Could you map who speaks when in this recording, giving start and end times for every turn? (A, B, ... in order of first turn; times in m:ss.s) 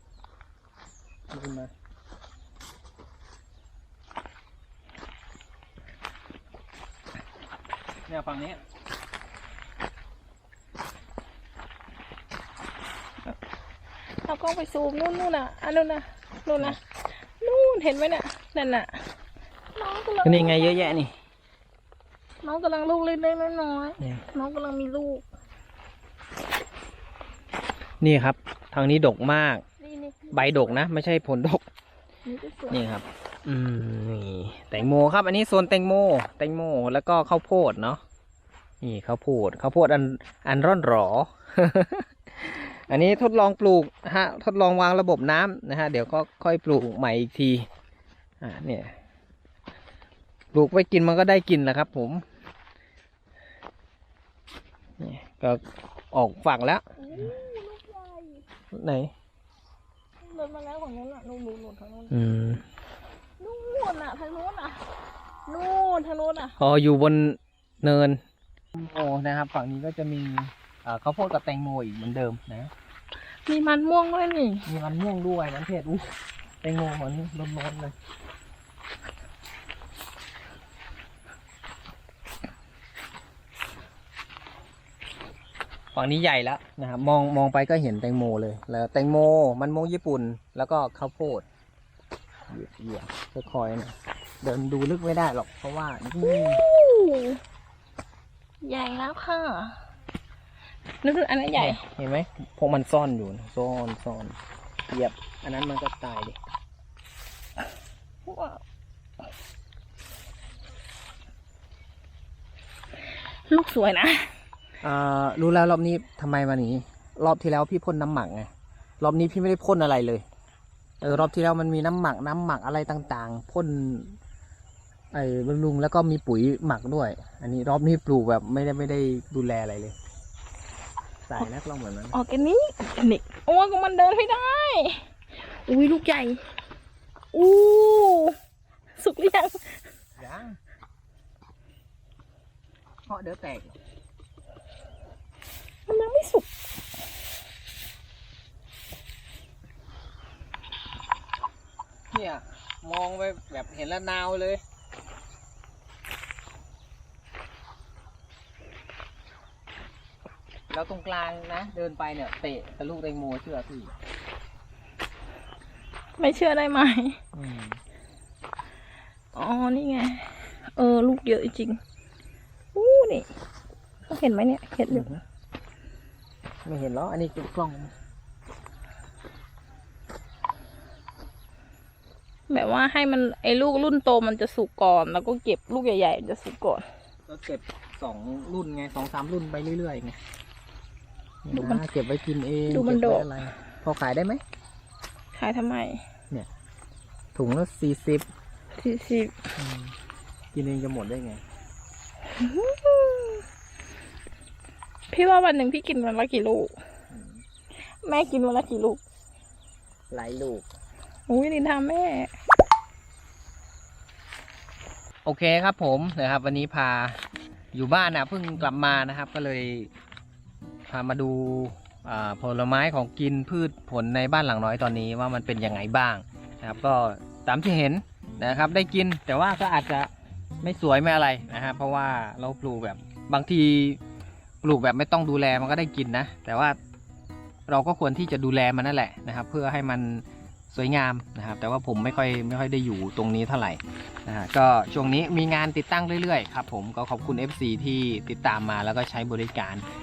0:01.3-0:01.7 A
0:08.1-0:08.6 A
0:14.2-0:16.8 B
0:17.4-0:19.1 B
0:19.7-0:21.0 B
0:20.2-0:21.1 A
0:22.4-0:25.2 B
0:24.0-0:24.2 A
0:28.0-0:29.6 A
0:29.8-0:30.8 B
0:30.3-0:31.6 A
0:32.2-0:32.8 B
0:32.7-0:38.0 A
0:38.8-0:47.7 A
0:48.4-0:49.0 A
0:50.5-0:52.2 A
0:55.0-0:57.3 A
0:57.0-0:58.4 B
0:58.7-0:59.1 A
1:00.2-1:02.2 B
1:02.1-1:02.6 A
1:03.4-1:04.8 B
1:05.4-1:06.5 B
1:06.6-1:08.2 A
1:08.7-1:12.7 A
1:13.4-1:14.6 B
1:14.6-1:17.9 A
1:25.9-1:31.4 A
1:32.5-1:36.6 A
1:36.2-1:37.4 B
1:38.6-1:39.8 B
1:41.0-1:41.8 B
1:41.5-1:44.4 A
1:44.9-1:46.4 A
1:48.2-1:48.6 B
1:53.5-1:54.4 B
1:54.8-2:00.2 A
2:01.0-2:04.2 A
2:05.1-2:10.0 A
2:11.3-2:12.2 A
2:12.1-2:16.5 B
2:17.3-2:18.4 B
2:19.0-2:19.8 B
2:20.2-2:20.6 A
2:23.1-2:23.8 A
2:25.9-2:26.5 B
2:32.1-2:34.6 A
2:40.7-2:43.9 A
2:46.2-2:47.2 B
2:47.3-2:47.8 A
2:49.3-2:51.8 B
2:52.7-2:53.3 B
2:54.1-2:55.1 B
2:54.9-2:55.2 A
2:56.6-2:57.9 A
3:02.5-3:06.8 B
3:07.3-3:10.2 A
3:11.4-3:14.4 A
3:11.5-3:11.8 B
3:12.7-3:13.4 B
3:15.3-3:16.0 B
3:17.3-3:18.3 A
3:18.8-3:19.4 B
3:19.6-3:19.9 A
3:20.5-3:21.4 A
3:22.3-3:23.4 B
3:25.1-3:26.7 B
3:27.1-3:27.4 A
3:28.0-3:29.0 B
3:30.1-3:30.7 A
3:31.3-3:32.3 B
3:35.2-3:37.2 A
3:37.7-3:39.9 A
3:40.9-3:50.1 A
3:50.6-3:54.0 A
3:54.6-3:56.8 A
3:57.7-4:09.8 A